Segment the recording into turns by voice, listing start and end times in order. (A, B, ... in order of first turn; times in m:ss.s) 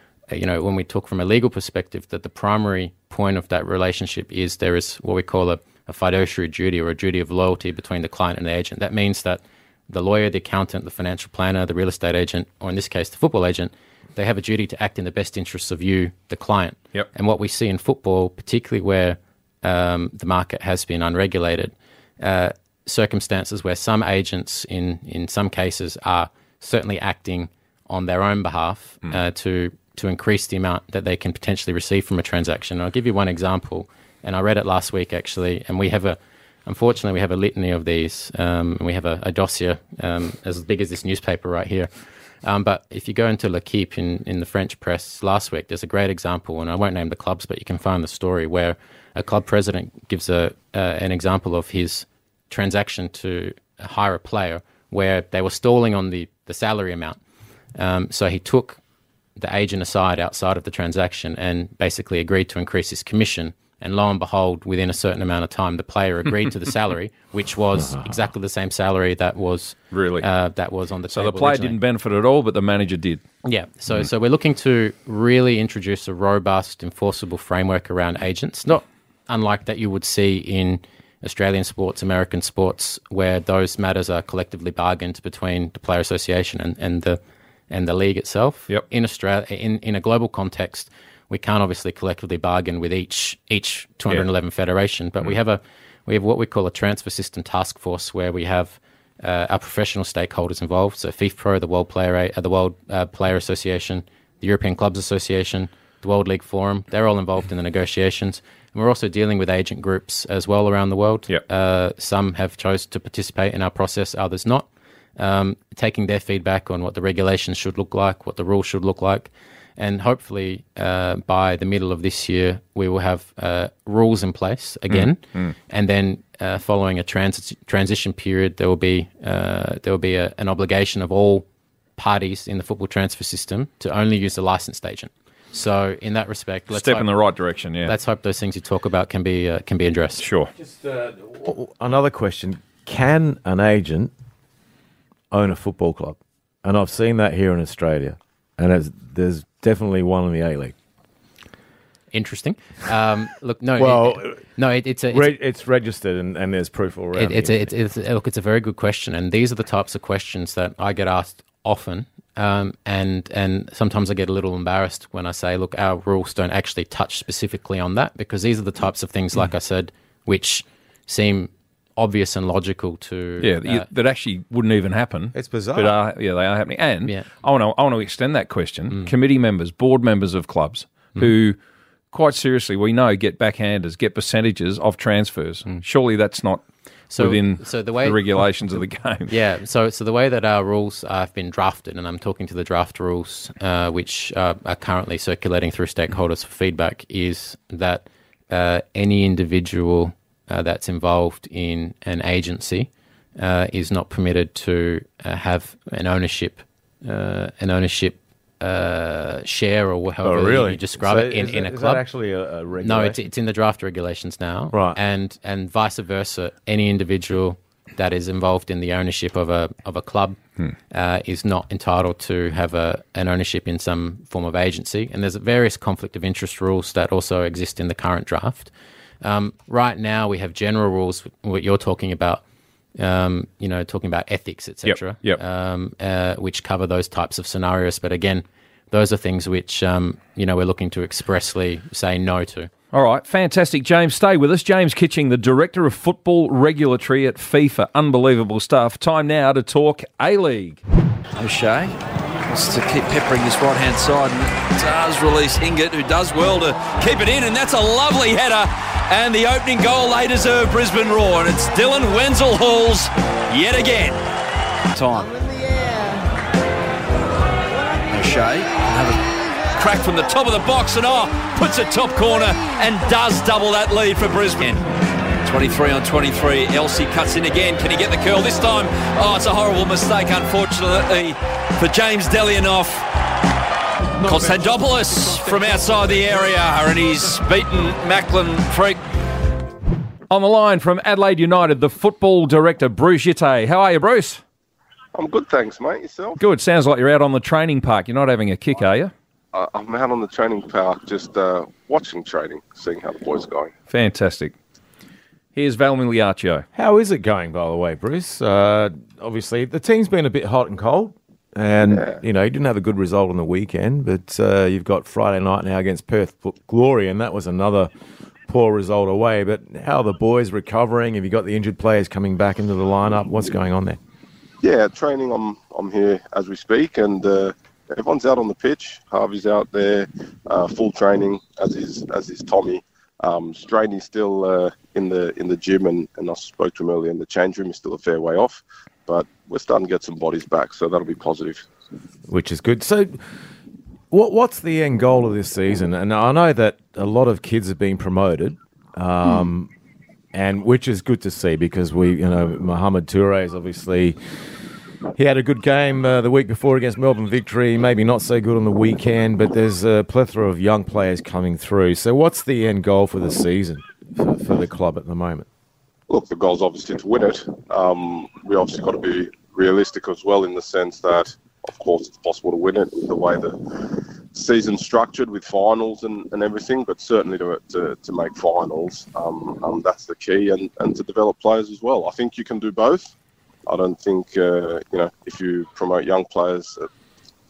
0:00.3-0:41.9 A
0:42.4-0:57.2 A
0:57.7-0:58.8 A
0:59.4-1:11.7 A
1:07.8-1:08.1 B
1:09.9-1:10.3 C
1:11.1-1:13.2 C
1:13.4-1:54.6 A
1:55.2-2:11.4 A
2:04.9-2:05.5 C
2:12.0-2:17.1 A
2:16.7-2:17.9 C
2:17.8-2:20.2 A
2:20.2-2:20.5 C
2:20.6-2:24.1 B
2:25.3-2:30.7 B
2:32.1-2:35.3 A
2:33.8-2:34.4 B
2:35.1-2:37.7 B
2:37.1-2:53.9 A
2:53.4-3:01.6 C
2:55.3-2:56.0 B
3:02.1-3:09.3 C
3:07.1-3:08.2 A
3:09.3-3:32.0 A
3:30.2-3:33.2 B
3:32.8-3:40.4 A
3:34.7-3:35.0 B
3:40.9-3:52.4 A
3:53.0-4:02.7 A
3:54.8-3:55.4 C
4:02.9-4:10.8 C
4:11.4-4:24.2 D
4:24.9-4:25.4 D
4:28.1-4:34.8 D
4:35.4-4:43.1 D
4:44.2-4:49.0 D
4:50.3-4:54.4 C
4:55.1-4:56.4 E
4:56.4-4:59.1 C
4:59.5-5:03.7 E
5:03.9-5:04.5 C
5:05.5-5:06.6 C
5:06.7-5:17.9 B
5:11.9-5:12.2 E
5:18.5-5:24.0 B
5:24.6-5:41.6 E
5:42.3-5:43.2 B
5:44.1-5:49.7 B
5:50.3-5:54.2 B
5:55.2-6:05.5 B
6:06.1-6:23.1 E
6:23.7-6:26.9 E